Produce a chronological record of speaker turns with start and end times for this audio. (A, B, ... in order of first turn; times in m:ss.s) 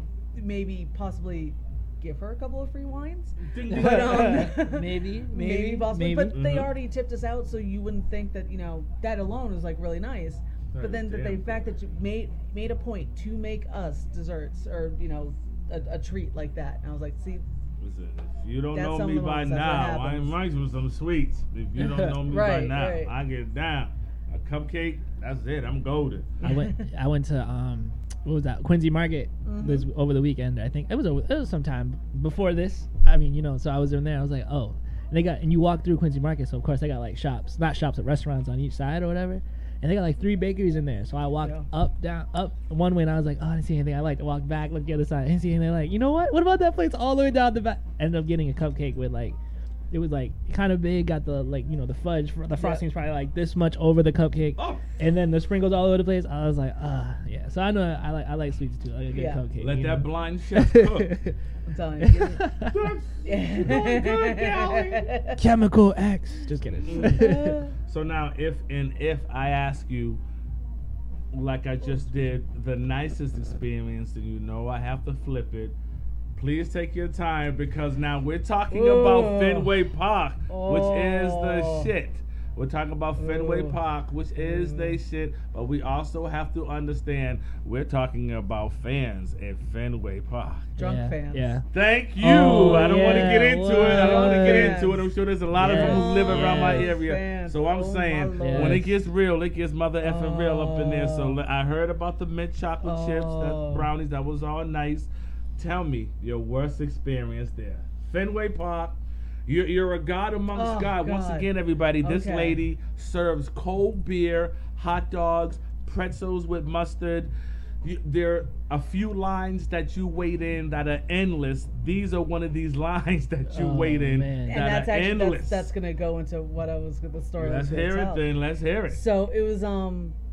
0:00.3-0:17.4 A
0:03.4-0:04.5 B
0:03.7-0:06.4 C
0:06.3-0:06.7 B
0:10.7-0:11.7 B
0:17.8-0:26.3 B
0:18.7-0:20.4 A
0:21.8-0:22.2 C
0:22.3-0:23.1 A
0:26.4-0:26.8 A
0:26.4-0:49.4 C
0:29.4-0:29.9 A
0:41.4-0:41.7 A
0:49.9-1:01.4 C
0:52.6-0:52.8 A
0:54.6-0:54.8 B
0:59.1-0:59.4 A
0:59.6-1:01.2 B
1:01.7-1:02.5 A
1:02.0-1:02.8 C
1:02.6-1:05.1 B
1:03.2-1:05.4 A
1:05.4-1:07.6 C
1:06.8-1:07.3 B
1:07.0-1:07.7 A
1:07.9-1:10.2 B
1:11.3-1:15.8 B
1:16.4-1:30.7 B
1:18.7-1:19.7 A
1:20.5-1:21.9 A
1:23.2-1:23.8 A
1:24.4-1:25.0 A
1:30.8-1:31.5 A
1:30.8-1:31.6 C
1:31.7-1:57.3 B
1:32.2-1:34.8 C
1:33.9-1:38.9 A
1:35.6-1:36.9 C
1:38.4-1:38.9 C
1:40.0-1:41.4 A
1:42.8-1:43.9 A
1:50.5-1:51.5 A
1:52.0-1:52.6 A
1:57.8-2:05.7 B
2:03.5-2:04.7 C
2:04.5-2:08.2 A
2:07.4-2:09.0 B
2:08.9-2:10.2 A